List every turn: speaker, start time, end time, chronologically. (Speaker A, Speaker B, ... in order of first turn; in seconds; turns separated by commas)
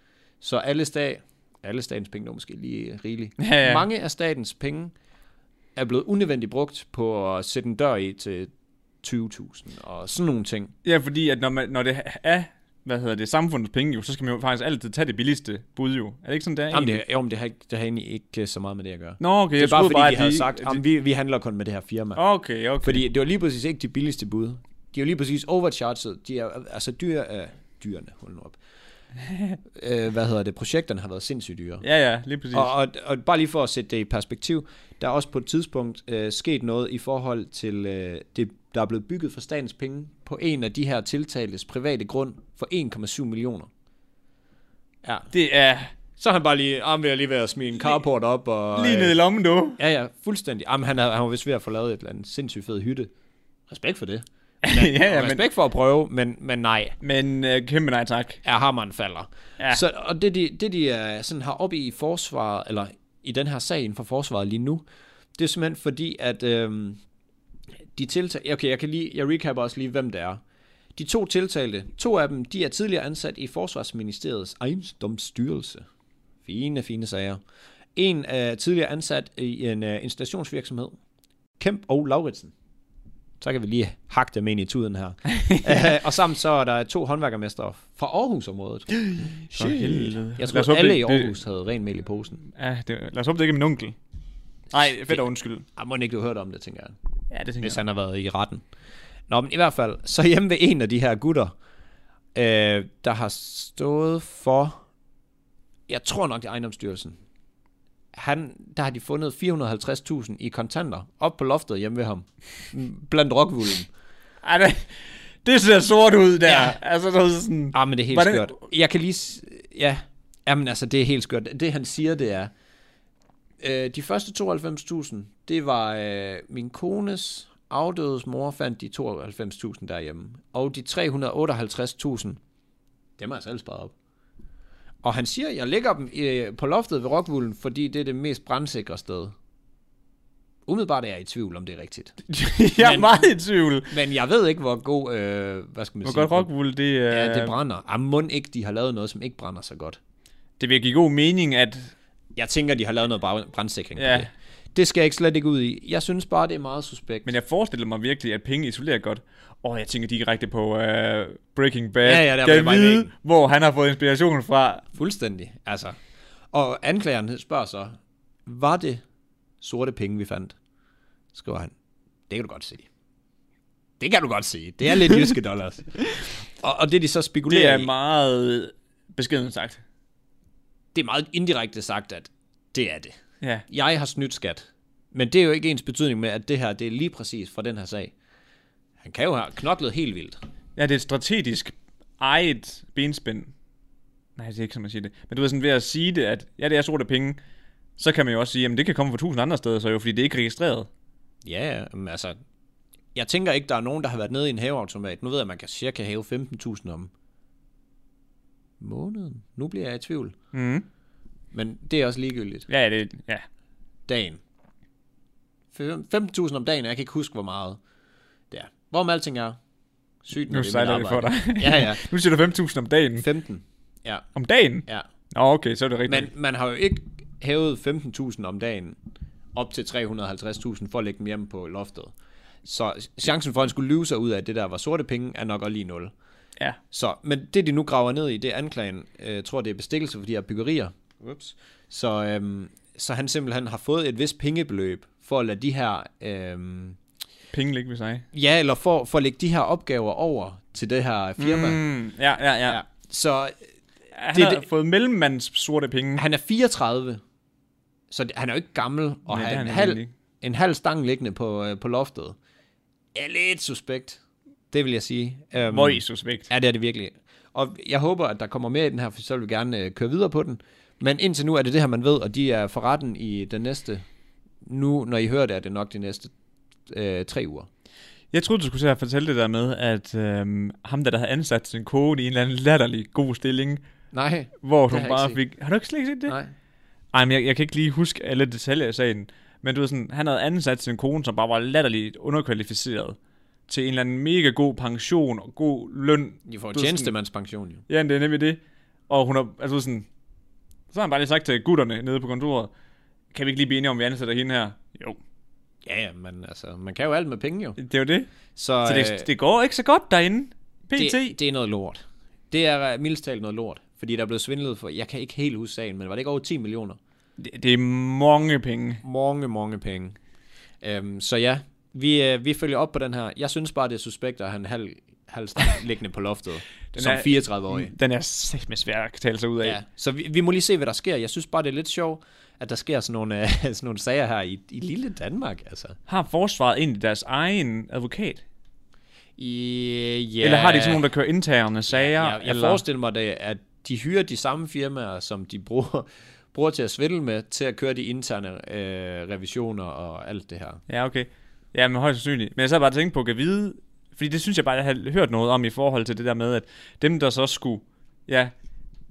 Speaker A: 0.4-4.9, Speaker B: 3.4-3.9, Speaker A: 5.8-8.5, Speaker A: 9.0-10.7, Speaker B: 10.8-17.0, Speaker A: 16.7-22.2, Speaker B: 19.2-20.8, Speaker B: 22.2-23.1, Speaker A: 22.8-28.6, Speaker B: 29.2-29.6, Speaker A: 29.7-31.8, Speaker B: 31.8-32.7, Speaker A: 32.5-43.7, Speaker A: 45.0-45.3, Speaker B: 45.3-45.9, Speaker A: 46.2-49.2, Speaker B: 48.8-49.8, Speaker A: 49.8-53.1, Speaker A: 53.7-57.0, Speaker B: 54.6-55.4, Speaker B: 57.0-58.4, Speaker A: 58.4-64.8, Speaker A: 65.4-67.0, Speaker A: 67.9-70.4, Speaker A: 71.0-75.8, Speaker A: 76.4-77.4, Speaker A: 78.0-81.0, Speaker A: 81.6-82.5, Speaker A: 83.4-92.4, Speaker B: 85.3-85.8, Speaker B: 88.9-91.3, Speaker B: 92.4-94.0, Speaker B: 94.7-95.7, Speaker A: 95.8-97.0, Speaker B: 97.3-97.8, Speaker A: 97.6-98.6, Speaker A: 99.3-101.5, Speaker A: 102.3-104.8, Speaker A: 105.9-107.2, Speaker A: 108.1-113.9, Speaker B: 114.4-118.6, Speaker A: 116.5-116.8, Speaker A: 117.7-122.5, Speaker A: 123.6-132.4, Speaker A: 133.2-133.9, Speaker A: 135.0-139.3, Speaker A: 140.7-142.1, Speaker B: 142.3-143.9, Speaker A: 142.8-143.1, Speaker A: 143.9-146.5, Speaker B: 146.0-147.6, Speaker A: 147.1-150.0, Speaker B: 150.6-151.9, Speaker A: 152.3-157.3, Speaker B: 154.0-154.3, Speaker B: 157.2-164.9, Speaker A: 162.0-163.1, Speaker A: 164.9-166.0, Speaker A: 166.5-169.0, Speaker A: 169.6-170.6, Speaker A: 171.3-171.7, Speaker A: 172.3-172.9, Speaker A: 174.0-177.9, Speaker B: 177.5-179.8, Speaker A: 180.9-183.2, Speaker A: 183.7-188.1, Speaker A: 189.0-190.4, Speaker B: 190.8-193.5, Speaker B: 194.4-197.4, Speaker B: 198.0-200.9, Speaker A: 201.4-202.4, Speaker A: 203.2-207.1, Speaker A: 208.8-210.3, Speaker B: 210.5-210.8, Speaker A: 211.5-212.7, Speaker B: 212.7-213.4, Speaker A: 214.1-214.4, Speaker A: 215.7-217.8, Speaker A: 218.5-219.6, Speaker A: 220.2-222.1, Speaker B: 220.5-223.3, Speaker A: 223.2-224.3, Speaker B: 224.3-226.3, Speaker A: 226.1-229.0, Speaker A: 229.5-232.1, Speaker A: 232.6-236.1, Speaker A: 236.9-247.0, Speaker B: 247.5-248.2, Speaker A: 248.3-251.8, Speaker B: 251.4-252.8, Speaker A: 252.7-253.6, Speaker B: 254.2-256.2, Speaker A: 254.3-254.7, Speaker A: 256.2-257.2, Speaker A: 258.1-262.4, Speaker B: 259.3-260.1, Speaker A: 263.1-264.2, Speaker A: 264.7-274.0, Speaker B: 265.7-266.5, Speaker A: 274.6-276.3, Speaker A: 276.9-277.7, Speaker B: 278.3-283.8, Speaker A: 284.1-285.4, Speaker B: 284.6-286.4, Speaker B: 287.1-293.2, Speaker B: 293.7-297.1, Speaker A: 296.5-297.8, Speaker B: 297.9-300.1, Speaker B: 300.9-302.7, Speaker B: 303.3-305.2, Speaker A: 305.9-307.8, Speaker B: 307.8-308.3, Speaker A: 308.6-309.3, Speaker B: 308.9-311.4, Speaker A: 311.0-317.0, Speaker B: 317.4-319.0, Speaker A: 319.0-320.2, Speaker A: 320.8-327.9, Speaker B: 326.9-329.8, Speaker A: 329.6-336.0, Speaker B: 336.1-338.4, Speaker A: 339.4-341.0, Speaker B: 340.4-342.8, Speaker A: 341.9-350.8, Speaker B: 350.9-358.5